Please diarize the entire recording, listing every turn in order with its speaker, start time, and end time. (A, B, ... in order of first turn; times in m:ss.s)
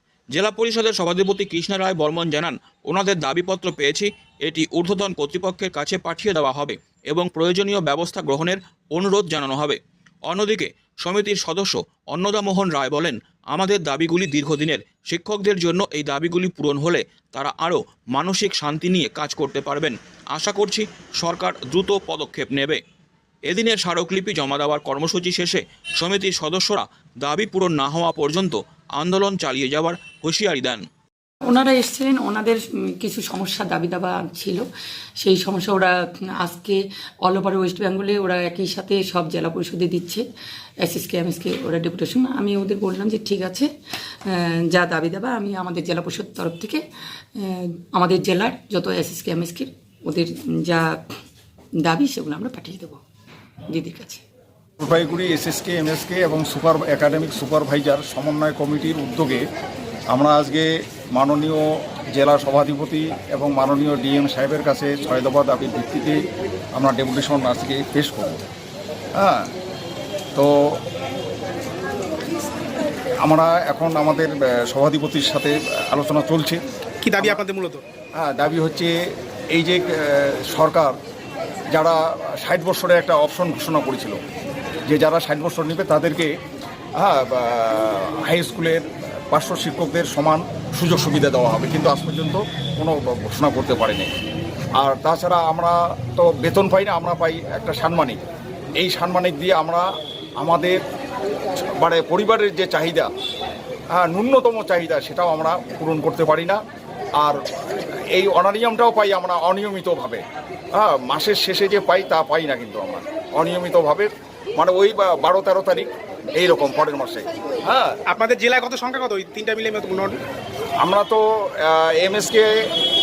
0:00.3-0:22.8 A
0:23.5-0:30.8 A
0:31.5-0:34.7 B
0:35.2-0:40.2 B
0:40.8-0:43.7 B
0:44.3-0:46.8 B
0:47.4-0:50.9 B
0:51.8-0:53.0 B
0:53.7-0:54.2 B
0:54.8-0:59.4 C
1:00.1-1:01.6 C
1:02.2-1:06.2 C
1:06.8-1:08.4 C
1:09.2-1:09.5 C
1:13.2-1:16.6 C
1:17.0-1:17.8 D
1:18.2-1:18.9 C
1:19.5-1:20.9 C
1:21.7-1:24.2 C
1:24.9-1:26.3 C
1:27.0-1:34.1 C
1:34.8-1:38.2 C
1:38.8-1:39.8 C
1:40.4-1:40.8 C
1:41.8-1:43.1 C
1:44.0-1:46.6 C
1:48.1-1:50.2 C
1:50.8-1:58.0 C
1:58.1-2:00.2 D
2:00.8-2:02.5 C